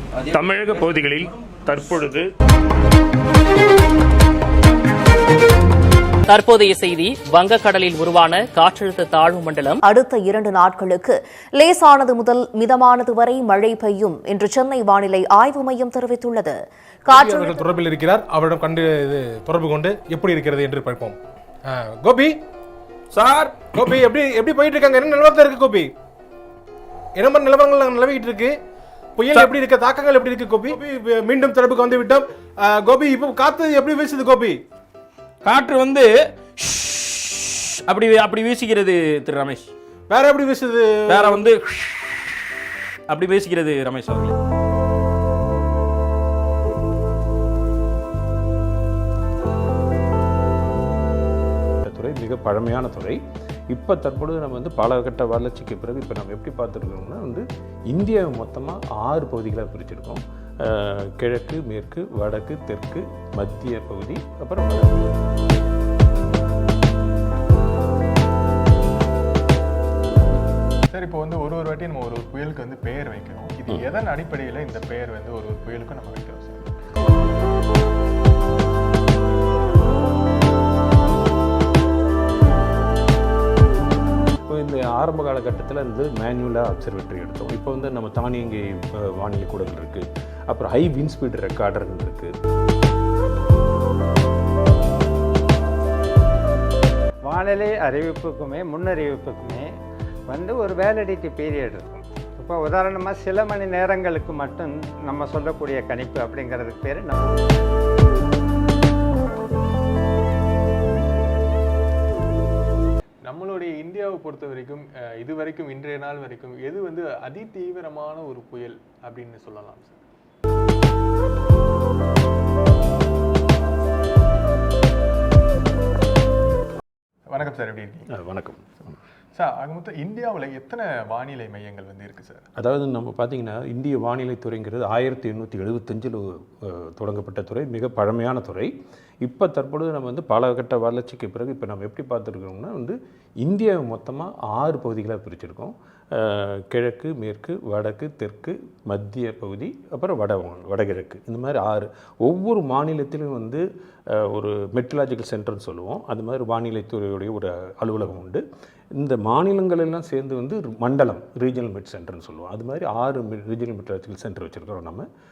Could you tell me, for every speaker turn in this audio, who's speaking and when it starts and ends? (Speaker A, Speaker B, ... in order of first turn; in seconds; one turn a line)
Speaker A: 0.2-2.2
Speaker B: 6.2-9.8
Speaker C: 9.8-17.6
Speaker D: 17.1-22.4
Speaker E: 23.1-23.6
Speaker D: 23.6-25.9
Speaker D: 27.1-28.5
Speaker D: 29.1-34.6
Speaker E: 35.4-39.7
Speaker D: 40.1-41.4
Speaker E: 41.1-42.2
Speaker E: 43.1-44.3
Speaker A: 51.8-65.2
Speaker F: 70.9-76.7
Speaker A: 84.5-92.3
Speaker G: 97.3-99.7
Speaker G: 100.3-107.4
Speaker F: 113.2-120.0
Speaker F: 127.3-128.2
Speaker A: 128.1-128.6
Speaker F: 129.3-132.4
Speaker A: 132.6-158.4
Speaker A: 158.9-165.1